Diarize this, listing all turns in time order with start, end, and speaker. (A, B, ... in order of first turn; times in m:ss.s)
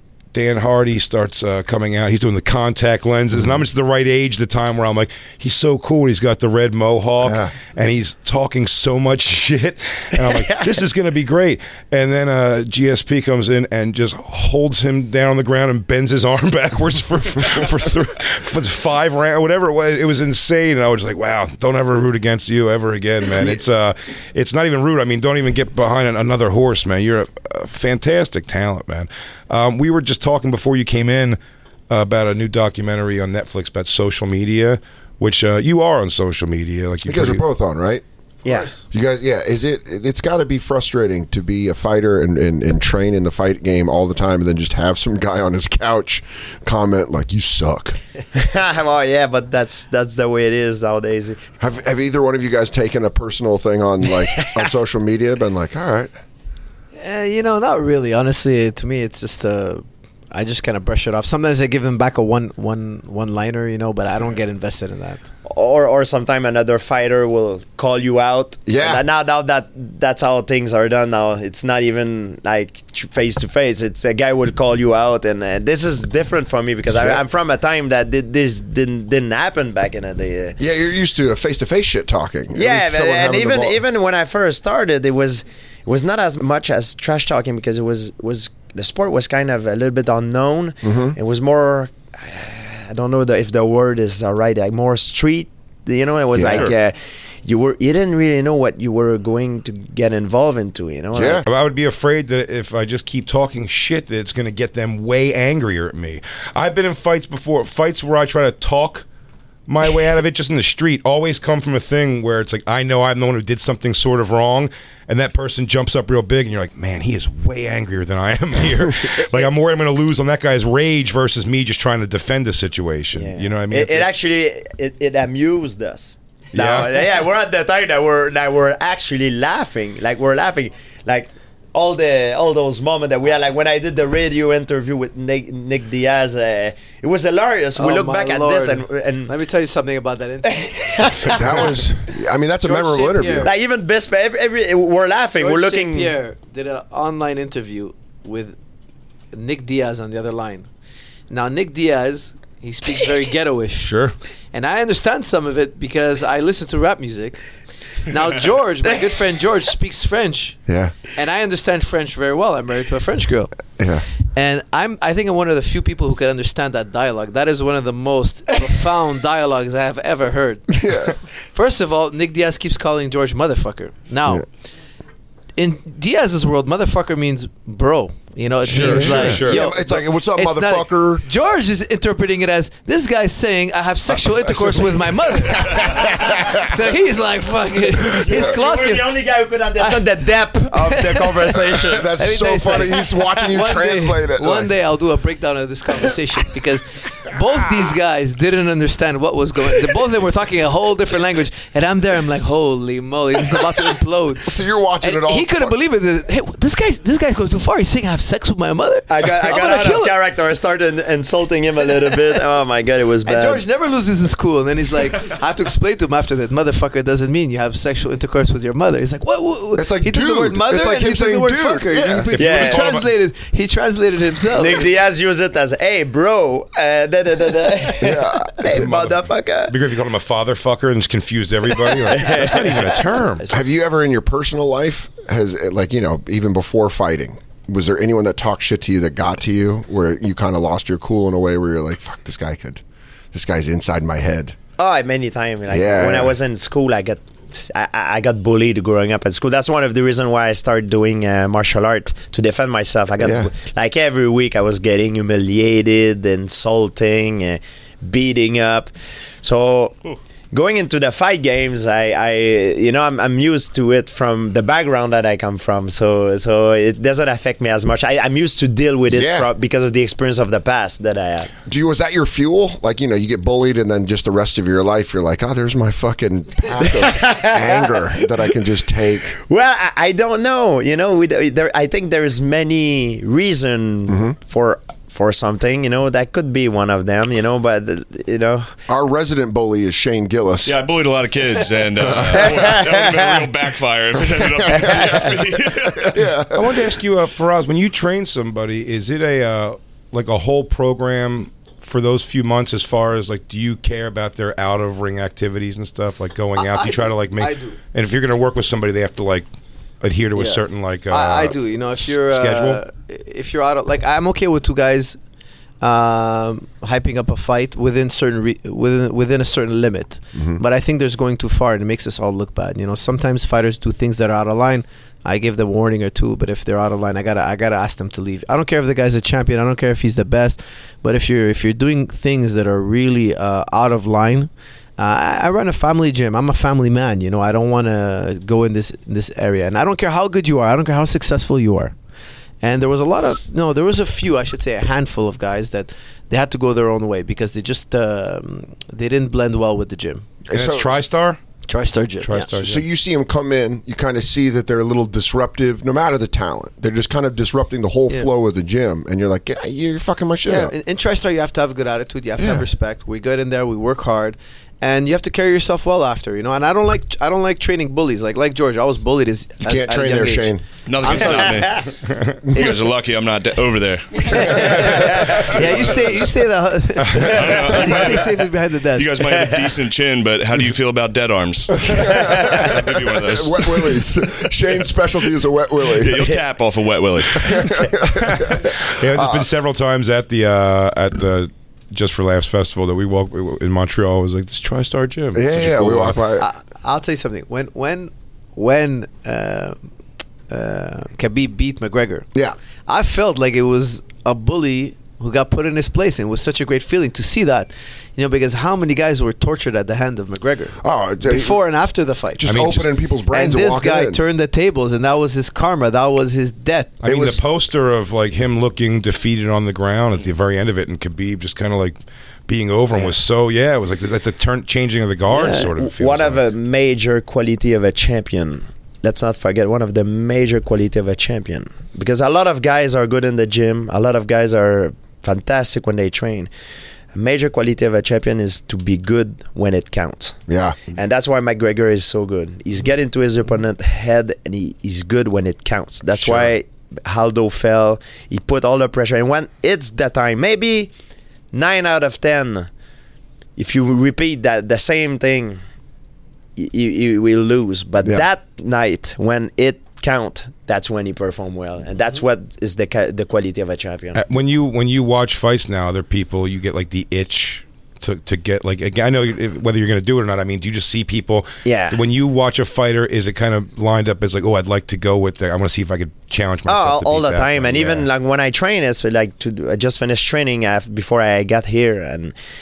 0:00.3-0:31.4 A
0:07.2-0:07.5 B
0:10.2-0:10.7 C
0:23.3-0:23.6 B
0:31.9-0:37.4 A
0:37.1-0:48.0 B
0:38.4-0:38.8 C
0:48.3-0:51.4 C
0:51.6-0:56.1 B
0:54.4-0:54.6 C
0:57.0-1:05.2 D
1:05.5-1:20.6 C
1:08.7-1:09.0 B
1:16.9-1:17.2 B
1:20.6-1:23.8 B
1:22.6-1:41.4 C
1:30.8-1:31.2 B
1:36.4-1:36.7 B
1:36.4-1:36.8 A
1:41.1-1:41.4 B
1:41.4-1:49.0 A
1:49.7-2:04.1 A
2:03.1-2:19.3 C
2:06.5-2:06.9 A
2:17.8-2:20.8 D
2:20.6-2:21.8 C
2:21.3-2:23.5 B
2:22.6-2:23.5 D
2:23.4-2:26.2 C
2:25.4-2:28.6 D
2:29.3-2:30.7 D
2:31.3-2:33.9 D
2:33.8-2:34.1 A
2:34.5-2:37.4 D
2:38.1-2:40.6 D
2:40.7-2:41.0 B
2:41.2-2:43.5 D
2:43.8-2:44.0 B
2:44.4-2:50.8 D
2:50.7-2:51.2 B
2:51.5-2:54.4 D
2:55.6-3:09.2 D
2:58.6-3:01.2 B
2:58.7-2:59.7 A
3:05.5-3:06.7 B
3:08.1-3:08.6 B
3:08.2-3:12.1 C
3:10.7-3:11.4 D
3:11.7-3:14.7 B
3:12.2-3:30.2 D
3:24.4-3:25.8 B
3:29.1-3:33.6 C
3:33.2-3:44.9 D
3:39.8-3:42.6 B
3:42.4-3:43.0 C
3:42.4-3:43.0 A
3:44.5-3:49.7 C
3:48.0-3:48.9 B
3:48.7-3:53.4 A
3:51.9-3:53.0 C
3:53.5-4:04.6 B
4:04.8-4:20.0 C
4:05.7-4:06.4 B
4:13.2-4:13.5 B
4:20.5-4:31.5 C
4:29.1-4:29.5 B
4:31.7-4:39.4 B
4:36.8-4:38.2 C
4:39.4-4:48.7 C
4:44.1-4:44.4 B
4:48.9-4:50.8 B
4:50.6-4:56.2 E
4:52.0-4:52.6 B
4:52.3-4:53.5 C
4:54.3-4:56.9 B
4:54.7-4:55.4 C
4:56.5-5:09.5 A
5:06.6-5:07.8 D
5:10.0-5:11.6 A
5:10.4-5:15.2 D
5:12.2-5:12.8 A
5:15.8-5:41.9 D
5:42.6-5:50.3 D
5:50.5-5:51.0 B
5:50.5-5:51.4 A
5:51.7-5:52.5 D
5:52.2-5:52.8 A
5:52.6-6:00.7 B
6:00.5-6:11.4 D
6:02.4-6:02.6 B
6:09.6-6:11.4 B
6:10.9-6:11.9 E
6:11.3-6:11.8 C
6:12.5-6:15.8 E
6:14.2-6:16.0 B
6:14.5-6:19.1 D
6:17.2-6:18.4 E
6:18.9-6:24.0 E
6:19.2-6:19.8 C
6:21.8-6:26.3 B
6:22.1-6:22.8 C
6:25.9-6:27.8 E
6:27.4-6:29.5 B
6:28.2-6:36.2 A
6:35.4-6:36.5 B
6:36.4-6:39.8 D
6:40.5-6:42.3 D
6:42.9-6:52.5 D
6:50.8-6:51.6 B
6:52.4-6:54.2 B
6:52.5-6:52.9 A
6:53.3-6:57.0 D
6:57.0-7:06.4 A
6:57.0-6:57.4 B
7:05.3-7:16.5 C
7:17.1-7:30.9 C
7:20.5-7:20.8 B
7:26.2-7:26.5 A
7:31.5-7:32.7 C
7:33.6-7:35.6 C
7:36.6-7:44.2 C
7:44.2-7:58.1 A
7:51.6-7:52.0 C
7:56.7-8:02.4 C